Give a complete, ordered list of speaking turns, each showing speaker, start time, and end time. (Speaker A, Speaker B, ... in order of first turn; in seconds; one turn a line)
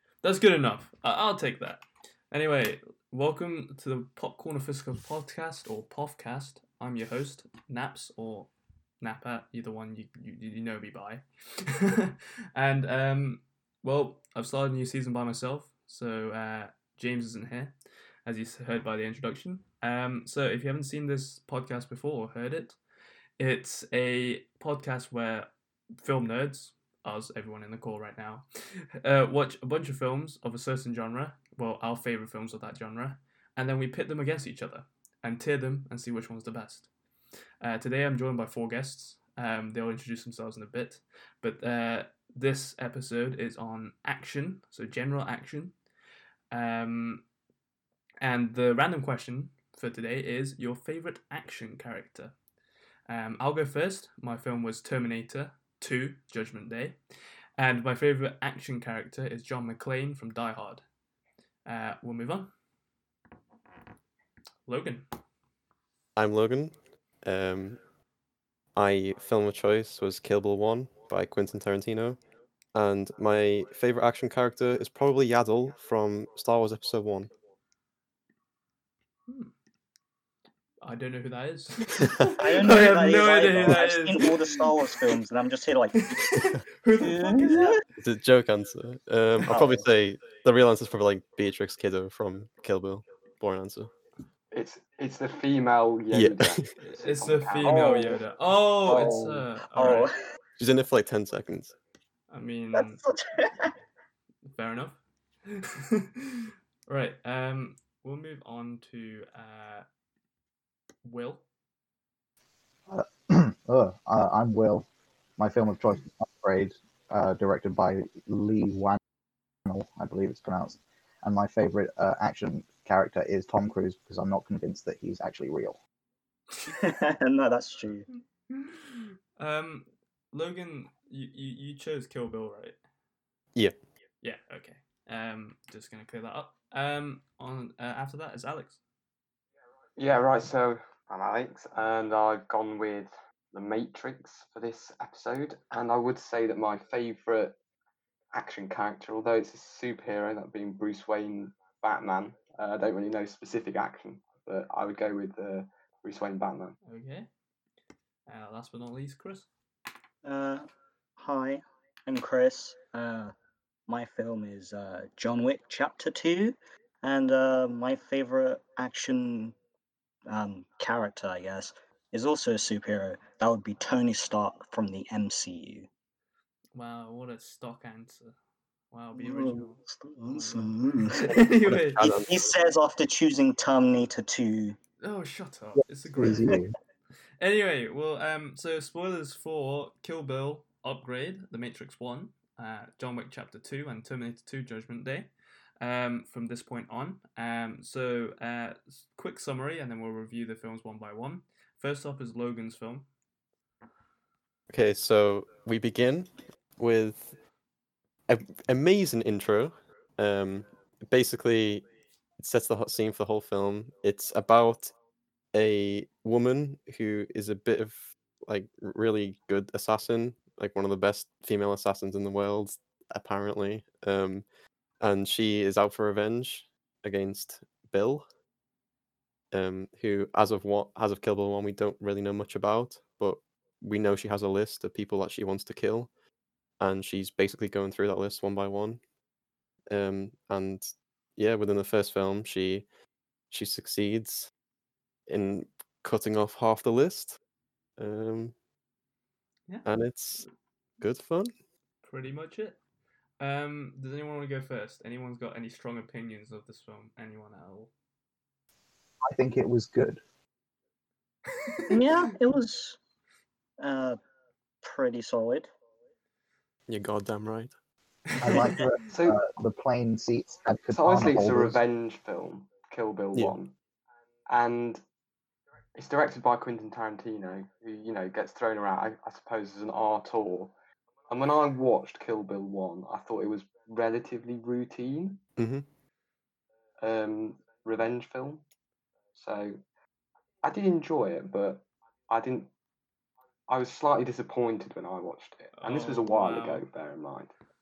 Speaker A: 0.2-17.7
Speaker A: 18.2-22.8
Speaker A: 23.4-36.9
Speaker A: 37.6-45.7
Speaker A: 46.5-47.2
Speaker A: 48.2-52.3
Speaker A: 53.1-57.0
Speaker A: 57.6-60.8
Speaker A: 61.6-62.5
Speaker A: 64.7-65.0
Speaker B: 66.2-67.8
Speaker B: 68.7-72.2
Speaker B: 72.7-77.3
Speaker A: 79.3-79.5
Speaker A: 80.8-85.2
Speaker B: 81.9-82.4
Speaker C: 82.3-86.0
Speaker A: 85.9-87.8
Speaker C: 87.0-87.8
Speaker B: 88.0-93.9
Speaker C: 89.5-89.8
Speaker D: 94.5-98.2
Speaker B: 96.1-96.7
Speaker A: 96.8-100.1
Speaker C: 97.8-98.1
Speaker D: 98.9-99.4
Speaker C: 98.9-100.2
Speaker B: 100.6-101.7
Speaker A: 102.3-103.0
Speaker C: 102.7-103.7
Speaker A: 104.5-109.8
Speaker A: 111.0-111.4
Speaker E: 112.9-114.9
Speaker E: 115.4-119.0
Speaker E: 119.6-125.8
Speaker C: 126.7-128.1
Speaker A: 128.5-132.8
Speaker A: 134.2-138.8
Speaker D: 140.0-147.6
Speaker D: 148.3-156.8
Speaker A: 156.8-157.3
Speaker A: 158.3-159.5
Speaker C: 160.2-160.6
Speaker C: 161.2-163.3
Speaker C: 163.9-169.5
Speaker C: 170.3-175.9
Speaker A: 176.7-178.3
Speaker A: 178.9-182.2
Speaker C: 179.1-181.3
Speaker B: 181.2-182.6
Speaker C: 182.3-184.8
Speaker A: 185.0-186.6
Speaker E: 186.2-186.7
Speaker A: 187.4-195.3
Speaker A: 195.8-203.1
Speaker B: 204.7-207.3
Speaker B: 208.3-211.9
Speaker B: 212.4-214.9
Speaker B: 215.5-224.4
Speaker B: 225.0-228.2
Speaker B: 229.5-236.1
Speaker B: 236.8-239.0
Speaker B: 239.9-242.8
Speaker B: 243.5-244.5
Speaker B: 245.3-247.4
Speaker B: 248.0-248.5
Speaker B: 249.8-250.4
Speaker B: 251.0-251.5
Speaker A: 252.0-252.8
Speaker A: 253.4-257.9
Speaker E: 259.2-260.2
Speaker A: 261.5-262.2
Speaker C: 261.9-263.0
Speaker C: 263.8-264.2
Speaker C: 264.8-265.7
Speaker B: 266.9-267.7
Speaker A: 268.3-268.7
Speaker E: 268.4-271.8
Speaker D: 269.1-269.4
Speaker D: 270.9-273.7
Speaker D: 274.5-275.0
Speaker D: 275.9-280.7
Speaker D: 281.3-285.4
Speaker B: 285.6-285.9
Speaker D: 287.0-288.6
Speaker D: 289.4-289.8
Speaker D: 290.6-292.7
Speaker D: 293.7-297.5
Speaker A: 295.8-296.9